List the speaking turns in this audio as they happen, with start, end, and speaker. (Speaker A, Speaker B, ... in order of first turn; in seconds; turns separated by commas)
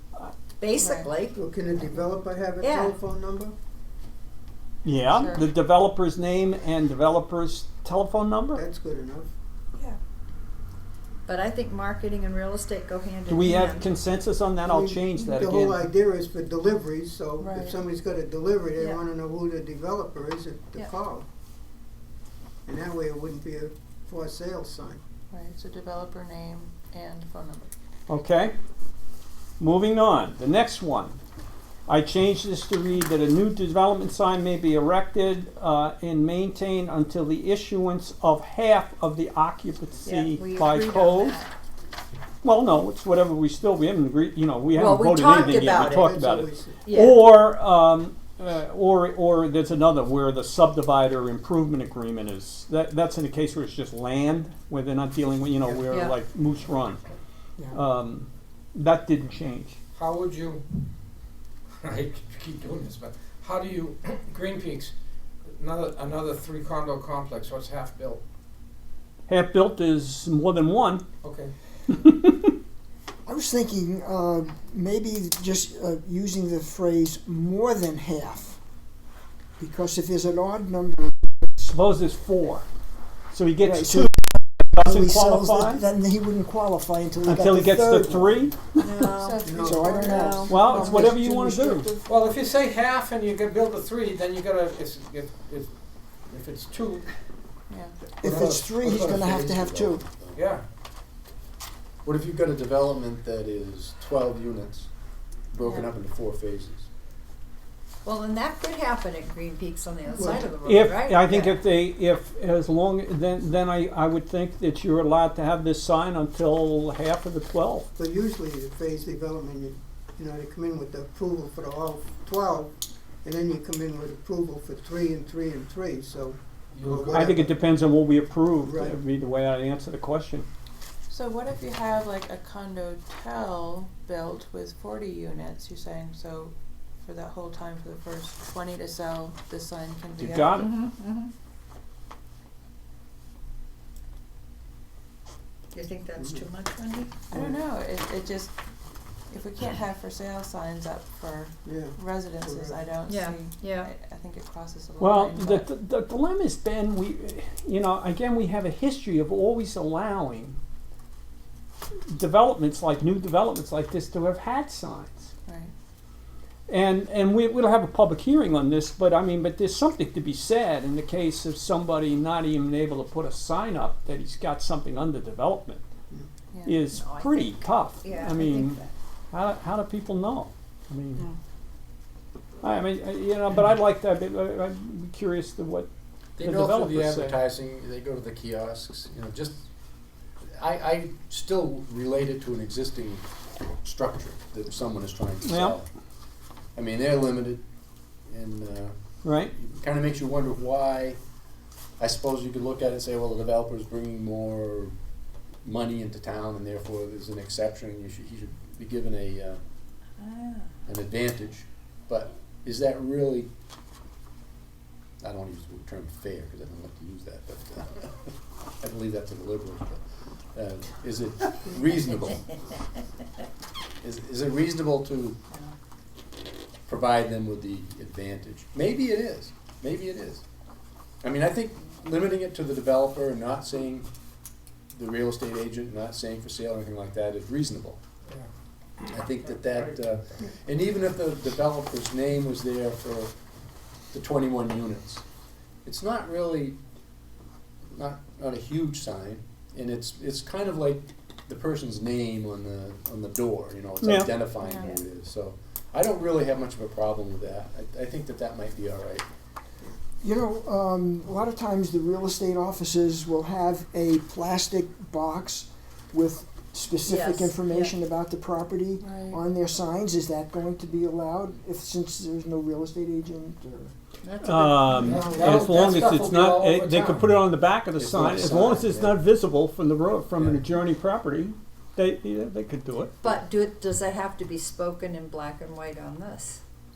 Speaker A: 0.6-1.9, Speaker B: 0.8-1.1, Speaker C: 1.3-3.5, Speaker A: 2.6-3.0, Speaker D: 4.8-8.6, Speaker B: 5.1-5.5, Speaker C: 8.6-9.3, Speaker A: 11.3-14.0, Speaker D: 13.3-15.9, Speaker C: 14.7-21.3, Speaker B: 17.4-17.8, Speaker C: 22.7-25.0, Speaker B: 25.3-27.7, Speaker D: 28.1-28.5, Speaker D: 29.6-31.2, Speaker D: 31.9-41.4, Speaker A: 40.0-41.5, Speaker D: 42.4-57.0, Speaker A: 44.8-46.1, Speaker C: 45.5-47.0, Speaker A: 46.9-47.2, Speaker D: 57.7-59.8, Speaker E: 60.0-60.6, Speaker E: 61.8-64.9, Speaker E: 65.5-68.2, Speaker D: 69.3-71.0, Speaker E: 71.2-71.5, Speaker D: 72.0-72.5, Speaker F: 73.3-78.6, Speaker F: 79.6-81.5, Speaker D: 81.6-82.7, Speaker D: 83.3-85.8, Speaker F: 83.6-88.5, Speaker D: 87.2-89.1, Speaker A: 88.8-91.1, Speaker B: 89.2-90.4, Speaker C: 89.4-90.2, Speaker F: 89.5-92.1, Speaker D: 90.5-91.9, Speaker E: 92.0-95.7, Speaker E: 96.3-97.1, Speaker B: 97.7-98.0, Speaker F: 98.2-100.0, Speaker E: 98.2-98.7, Speaker G: 98.3-100.5, Speaker E: 100.3-100.6, Speaker G: 102.0-104.9, Speaker G: 105.5-106.9, Speaker B: 105.6-105.9, Speaker A: 108.0-111.6, Speaker C: 110.2-110.5, Speaker D: 110.6-117.9, Speaker C: 118.0-122.7, Speaker C: 123.2-127.5, Speaker E: 126.8-127.3, Speaker D: 127.1-130.5, Speaker C: 128.6-129.0, Speaker B: 131.1-140.7, Speaker D: 140.2-140.7, Speaker A: 140.6-141.3, Speaker A: 145.7-147.2, Speaker C: 146.2-146.4, Speaker C: 147.3-147.7, Speaker B: 147.3-148.5, Speaker B: 149.3-155.7, Speaker C: 151.7-152.9, Speaker A: 153.1-153.9, Speaker D: 155.0-160.6, Speaker D: 162.1-165.3, Speaker B: 165.5-165.7, Speaker D: 166.7-175.8, Speaker B: 176.5-176.8, Speaker D: 176.7-178.8, Speaker A: 176.9-178.9, Speaker D: 179.3-181.3, Speaker D: 182.6-185.9, Speaker G: 186.4-189.7, Speaker D: 186.4-187.4, Speaker G: 190.6-193.3, Speaker G: 193.8-195.9, Speaker D: 195.4-195.8, Speaker G: 196.8-197.6, Speaker G: 198.3-198.9, Speaker D: 199.2-199.5, Speaker G: 199.5-201.2, Speaker G: 202.0-204.9, Speaker G: 205.6-209.6, Speaker A: 210.2-210.7, Speaker G: 210.9-213.5, Speaker G: 215.2-220.0, Speaker G: 220.5-222.6, Speaker G: 224.0-225.4, Speaker G: 226.9-230.4, Speaker G: 231.2-234.1, Speaker G: 234.9-238.0, Speaker G: 239.1-243.3, Speaker G: 244.1-245.2, Speaker G: 245.8-246.8, Speaker G: 247.9-259.2, Speaker D: 254.0-254.5, Speaker B: 254.6-255.0, Speaker F: 260.2-273.9, Speaker A: 267.1-267.9, Speaker B: 269.0-269.4, Speaker A: 274.2-275.4, Speaker D: 274.4-283.1, Speaker E: 274.9-277.4, Speaker G: 277.9-279.2, Speaker G: 280.4-280.6, Speaker A: 283.2-286.6